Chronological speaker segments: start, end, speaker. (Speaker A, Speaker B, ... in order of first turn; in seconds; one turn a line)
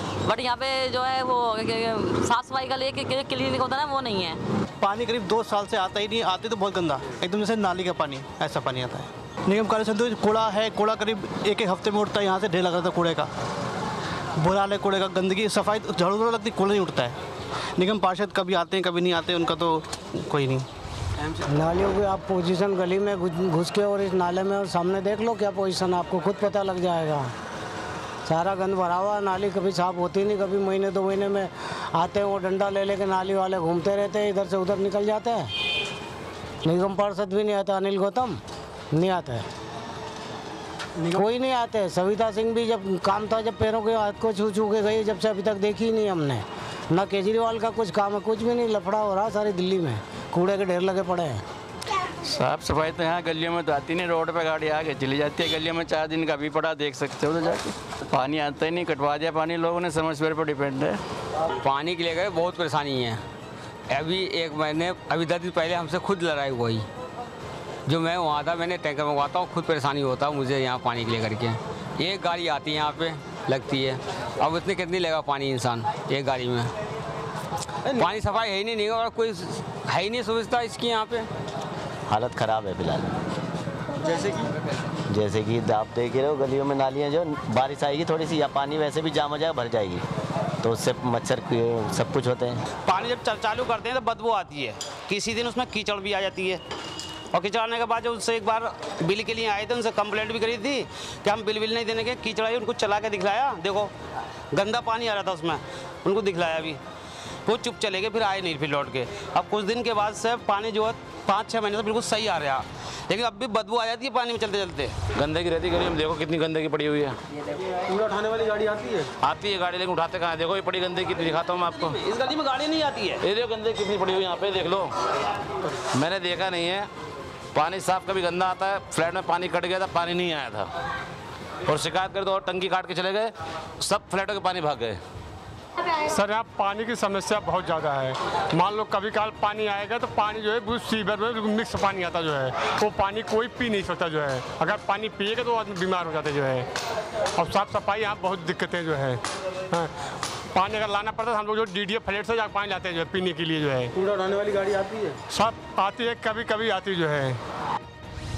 Speaker A: 0.3-4.3
Speaker B: 4.8-13.3
Speaker B: 14.4-17.1
Speaker B: 17.8-20.6
Speaker C: 21.5-27.3
Speaker C: 28.2-35.5
Speaker C: 36.6-38.4
Speaker C: 38.9-39.4
Speaker C: 41.1-51.4
Speaker D: 52.3-61.0
Speaker E: 61.6-63.2
Speaker E: 63.9-66.8
Speaker E: 67.8-76.7
Speaker E: 77.9-81.3
Speaker F: 82.1-83.1
Speaker F: 85.1-90.0
Speaker F: 90.6-92.5
Speaker G: 92.8-96.6
Speaker G: 97.3-103.9
Speaker G: 104.5-106.8
Speaker G: 107.4-115.1
Speaker H: 115.2-116.8
Speaker B: 117.9-119.0
Speaker H: 119.3-121.6
Speaker G: 122.4-123.2
Speaker H: 123.3-124.8
Speaker H: 126.0-126.7
Speaker H: 127.6-130.5
Speaker H: 132.7-133.0
Speaker H: 134.2-134.5
Speaker I: 136.1-146.6
Speaker I: 147.4-149.2
Speaker I: 150.5-154.0
Speaker B: 154.1-155.1
Speaker I: 155.3-157.3